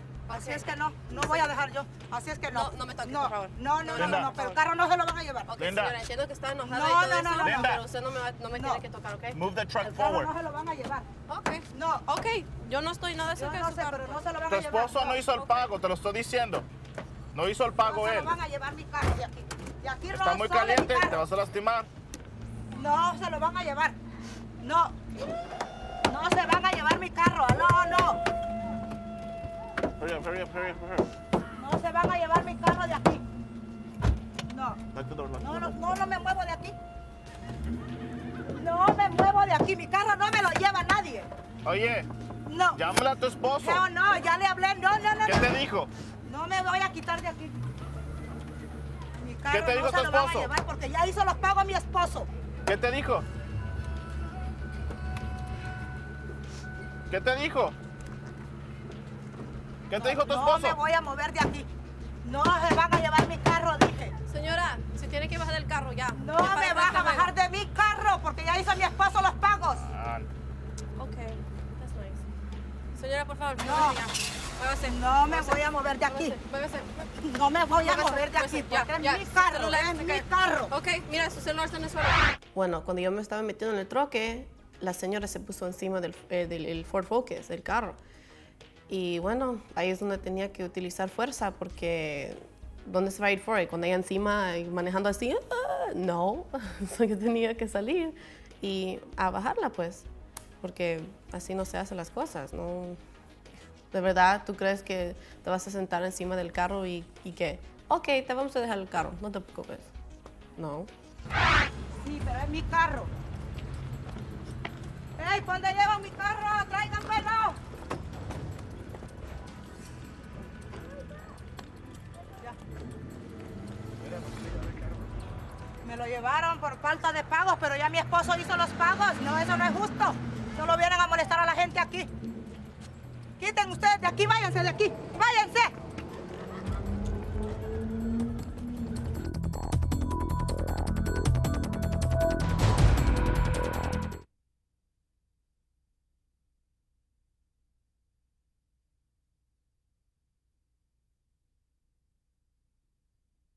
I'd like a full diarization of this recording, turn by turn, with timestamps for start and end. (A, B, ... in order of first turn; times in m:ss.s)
0:00.3-0:01.5 A
0:00.3-0:05.5 B
0:02.5-0:04.6 A
0:04.0-0:04.3 C
0:05.5-0:09.4 A
0:05.6-0:05.9 C
0:06.7-0:07.8 B
0:07.4-0:07.8 C
0:08.5-0:08.8 B
0:09.3-0:10.3 C
0:09.8-0:11.1 B
0:11.3-0:14.2 A
0:11.7-0:12.0 B
0:13.4-0:15.2 B
0:14.5-0:16.6 C
0:15.3-0:15.7 A
0:17.3-0:18.4 C
0:17.8-0:21.2 B
0:20.1-0:21.9 C
0:22.7-0:24.0 B
0:24.6-0:25.0 B
0:26.0-0:28.2 B
0:30.0-0:31.1 C
0:31.6-0:33.2 B
0:34.5-0:34.8 B
0:34.9-0:35.8 C
0:35.4-0:36.8 B
0:38.5-0:41.3 B
0:41.6-0:42.1 C
0:42.4-0:42.8 B
0:42.7-0:43.8 C
0:43.6-0:45.6 B
0:45.2-0:45.9 C
0:46.2-0:47.6 B
0:49.2-0:52.3 B
0:49.5-0:50.5 C
0:52.6-0:53.2 C
0:57.1-0:57.8 C
0:59.9-1:00.8 C
1:00.0-1:01.7 B
1:02.2-1:04.1 B
1:04.3-1:07.3 A
1:06.2-1:09.8 B
1:09.8-1:10.3 C
1:11.0-1:12.2 A
1:12.9-1:17.1 A
1:13.6-1:14.1 B
1:14.9-1:16.4 B
1:17.2-1:20.7 B
1:17.8-1:28.0 A
1:28.9-1:40.1 A
1:40.6-1:43.0 A
1:43.9-1:49.9 A
1:50.6-1:50.9 A
1:52.0-1:53.1 B
1:55.2-1:57.6 B
2:05.8-2:12.1 B
2:13.4-2:15.7 B